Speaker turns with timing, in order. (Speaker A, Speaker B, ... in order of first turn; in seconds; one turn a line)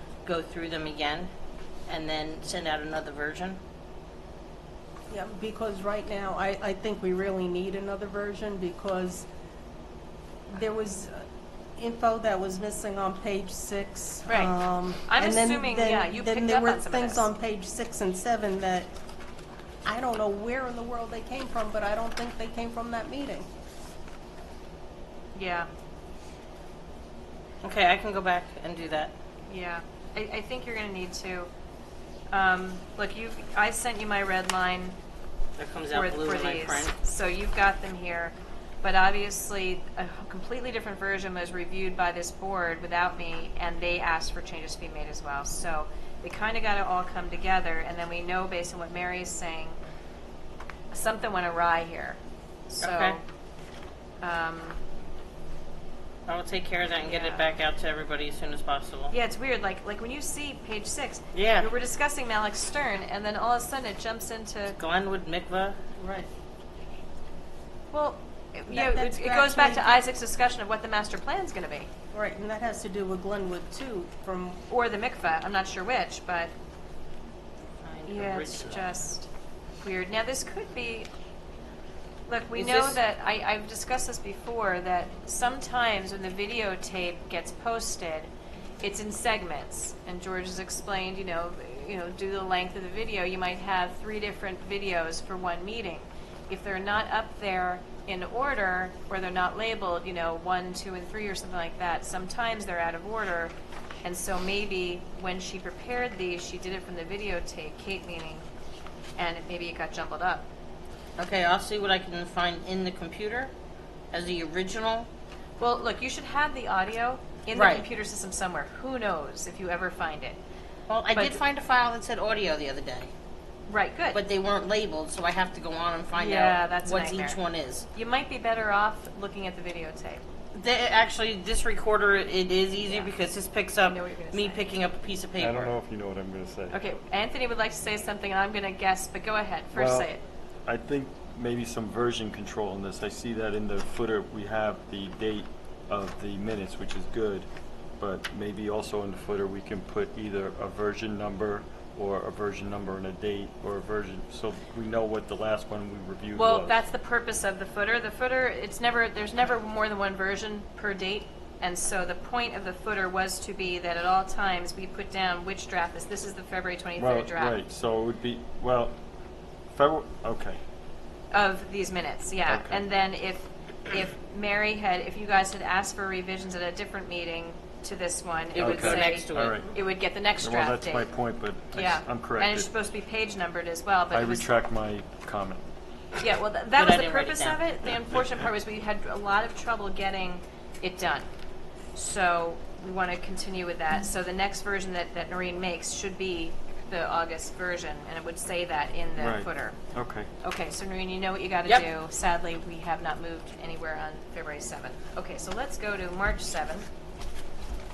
Speaker A: 0.2-1.3
Speaker A: 1.9-3.6
Speaker B: 5.1-9.3
Speaker B: 10.5-11.2
Speaker B: 11.8-18.9
Speaker C: 14.3-17.3
Speaker B: 19.8-23.5
Speaker C: 25.3-25.7
Speaker A: 27.6-29.1
Speaker C: 29.5-31.5
Speaker C: 32.3-35.0
Speaker A: 35.6-36.9
Speaker C: 35.9-49.8
Speaker C: 50.9-52.2
Speaker C: 52.7-53.2
Speaker A: 52.8-53.2
Speaker C: 54.2-54.8
Speaker A: 56.3-59.1
Speaker C: 57.0-57.4
Speaker C: 59.1-64.8
Speaker A: 61.3-61.7
Speaker A: 64.7-65.8
Speaker B: 66.0-66.3
Speaker C: 67.9-71.9
Speaker B: 68.7-70.0
Speaker B: 72.1-74.6
Speaker C: 74.7-76.5
Speaker A: 77.8-78.8
Speaker C: 78.1-79.3
Speaker C: 79.8-81.1
Speaker C: 82.3-88.3
Speaker A: 82.5-83.0
Speaker C: 88.8-108.4
Speaker C: 109.2-110.5
Speaker A: 111.2-113.5
Speaker A: 114.1-115.1
Speaker C: 115.6-120.4
Speaker A: 117.5-117.8
Speaker A: 120.9-123.1
Speaker C: 121.1-121.4
Speaker C: 123.7-124.2
Speaker A: 124.1-127.8
Speaker C: 126.1-127.4
Speaker C: 127.9-130.2
Speaker A: 130.5-135.7
Speaker C: 132.8-133.1
Speaker C: 133.8-134.8
Speaker D: 135.4-136.8
Speaker C: 136.7-140.2
Speaker D: 139.7-140.1
Speaker D: 140.6-147.5
Speaker D: 148.0-156.8
Speaker C: 156.3-167.6
Speaker D: 167.0-169.0
Speaker D: 169.7-170.6
Speaker C: 171.3-181.2
Speaker D: 172.4-172.8
Speaker A: 178.5-179.6
Speaker D: 178.6-179.7
Speaker D: 180.4-182.7
Speaker C: 181.7-184.5
Speaker D: 184.1-185.6
Speaker C: 186.2-191.3
Speaker A: 186.8-187.6
Speaker C: 191.9-199.8
Speaker D: 199.2-200.3
Speaker C: 200.4-206.9